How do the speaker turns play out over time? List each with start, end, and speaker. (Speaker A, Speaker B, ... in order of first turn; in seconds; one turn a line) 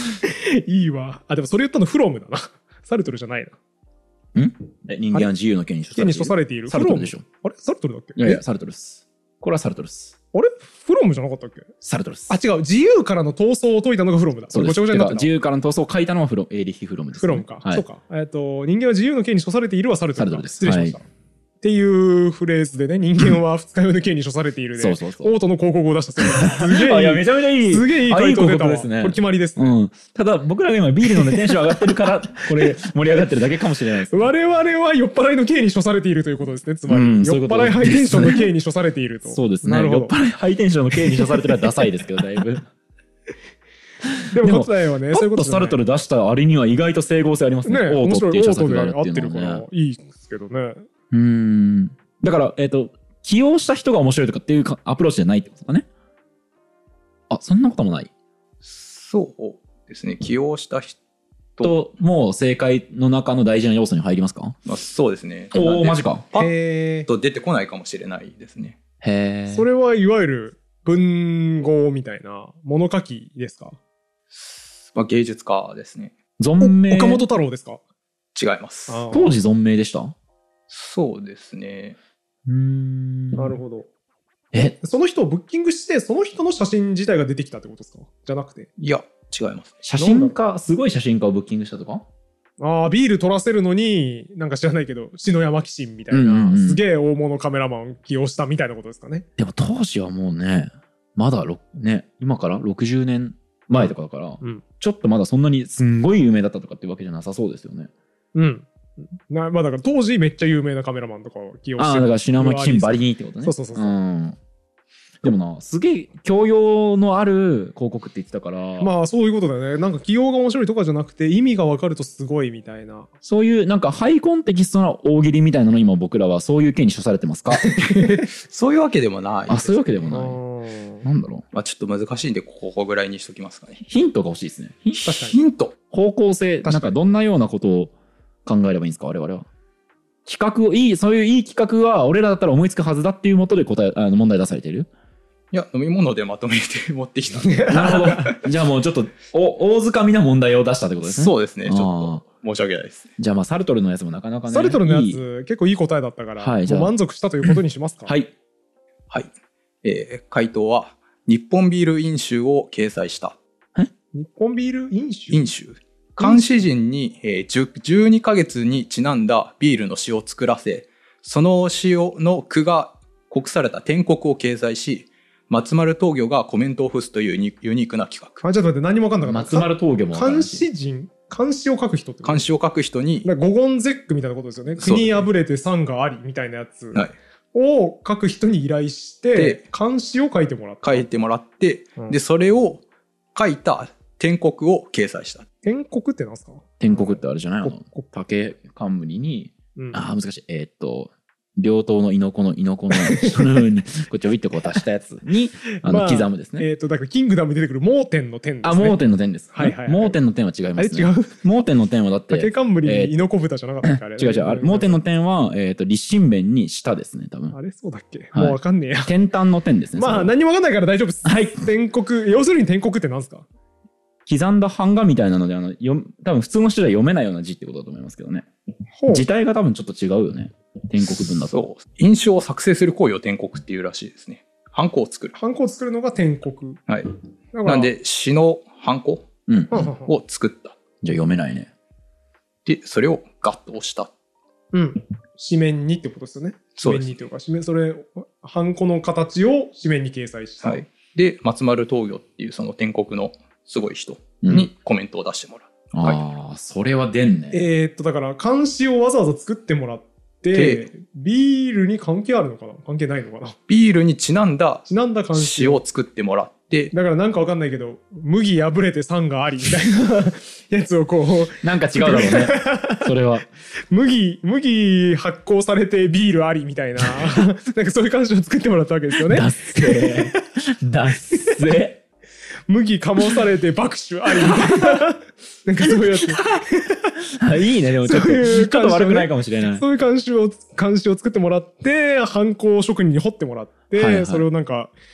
Speaker A: 0.2-3.5
Speaker B: 4.3-7.2
Speaker A: 5.9-8.4
Speaker B: 8.2-10.1
Speaker A: 10.3-11.7
Speaker B: 11.8-12.3
Speaker A: 12.3-15.3
Speaker B: 14.5-17.8
Speaker A: 17.1-21.0
Speaker B: 20.2-21.0
Speaker A: 21.6-29.7
Speaker B: 24.8-25.4
Speaker B: 26.2-34.3
Speaker A: 31.1-31.5
Speaker A: 32.4-32.7
Speaker A: 34.1-40.1
Speaker B: 36.9-38.5
Speaker B: 39.3-42.6
Speaker A: 41.2-41.6
Speaker B: 44.1-49.6
Speaker A: 44.3-45.8
Speaker A: 47.6-50.8
Speaker B: 51.1-55.9
Speaker B: 57.3-58.1
Speaker C: 58.6-61.0
Speaker B: 61.6-64.6
Speaker C: 64.7-66.5
Speaker B: 65.5-66.2
Speaker A: 66.4-67.1
Speaker C: 67.0-68.8
Speaker B: 69.0-69.7
Speaker A: 69.5-73.8
Speaker C: 74.3-76.1
Speaker B: 76.4-77.2
Speaker A: 76.6-77.8
Speaker C: 78.3-79.0
Speaker A: 78.9-79.3
Speaker B: 79.1-80.1
Speaker C: 80.7-82.0
Speaker B: 82.5-83.5
Speaker A: 83.3-83.9
Speaker A: 84.8-88.7
Speaker C: 88.8-89.8
Speaker B: 89.8-92.0
Speaker A: 90.0-90.4
Speaker A: 92.6-99.2
Speaker B: 96.1-96.8
Speaker B: 99.4-107.9
Speaker A: 108.3-113.9
Speaker B: 111.8-114.4
Speaker B: 115.2-118.9
Speaker A: 118.8-123.1
Speaker B: 123.2-127.7
Speaker A: 127.6-128.1
Speaker C: 128.0-129.8
Speaker B: 129.5-130.4
Speaker A: 130.1-131.0
Speaker B: 131.0-131.4
Speaker C: 131.5-133.8
Speaker B: 133.8-135.3
Speaker C: 135.0-135.8
Speaker A: 135.1-135.4
Speaker B: 135.9-137.9
Speaker A: 136.6-136.9
Speaker B: 138.4-139.5
Speaker B: 140.2-144.9
Speaker C: 145.5-148.1
Speaker A: 147.4-148.4
Speaker B: 147.7-152.2
Speaker C: 151.0-153.1
Speaker B: 153.2-155.2
Speaker A: 154.5-158.1
Speaker B: 156.4-158.3
Speaker C: 159.8-163.4
Speaker A: 164.1-165.5
Speaker C: 165.3-178.4
Speaker A: 166.2-166.4
Speaker A: 178.4-182.4
Speaker B: 179.2-180.7
Speaker C: 182.2-183.3
Speaker A: 183.2-187.0
Speaker C: 184.8-185.2
Speaker A: 187.5-191.1
Speaker C: 189.3-189.6
Speaker C: 190.8-192.8
Speaker C: 193.3-195.4
Speaker A: 195.6-198.1
Speaker B: 196.8-206.7
Speaker A: 199.8-200.0
Speaker A: 203.0-203.5
Speaker A: 205.8-209.0
Speaker B: 208.6-213.1
Speaker A: 209.5-210.2
Speaker A: 210.8-211.4
Speaker A: 212.3-215.0
Speaker B: 213.8-217.6
Speaker A: 217.5-219.1
Speaker B: 218.3-220.3
Speaker A: 219.9-223.4
Speaker B: 221.2-221.6
Speaker B: 224.3-228.5
Speaker A: 229.0-229.2
Speaker B: 229.1-231.6
Speaker C: 231.5-235.3
Speaker A: 235.3-236.8
Speaker C: 236.9-237.1
Speaker A: 237.5-237.9
Speaker C: 237.6-239.3
Speaker B: 239.5-239.9
Speaker A: 239.7-240.1
Speaker C: 240.0-240.8
Speaker B: 241.0-241.7
Speaker C: 242.7-244.1
Speaker A: 244.7-250.8
Speaker C: 246.8-247.2
Speaker C: 250.6-256.2
Speaker B: 254.4-254.7
Speaker B: 255.9-257.7
Speaker A: 257.5-263.6
Speaker C: 260.5-260.9
Speaker C: 263.7-266.9
Speaker A: 264.9-265.8
Speaker A: 266.9-273.1
Speaker B: 271.6-273.5
Speaker A: 273.9-280.3
Speaker B: 279.2-282.0
Speaker A: 282.7-287.1
Speaker B: 284.4-285.0
Speaker B: 285.8-286.4
Speaker B: 287.4-289.8
Speaker A: 288.0-294.9
Speaker B: 293.9-294.4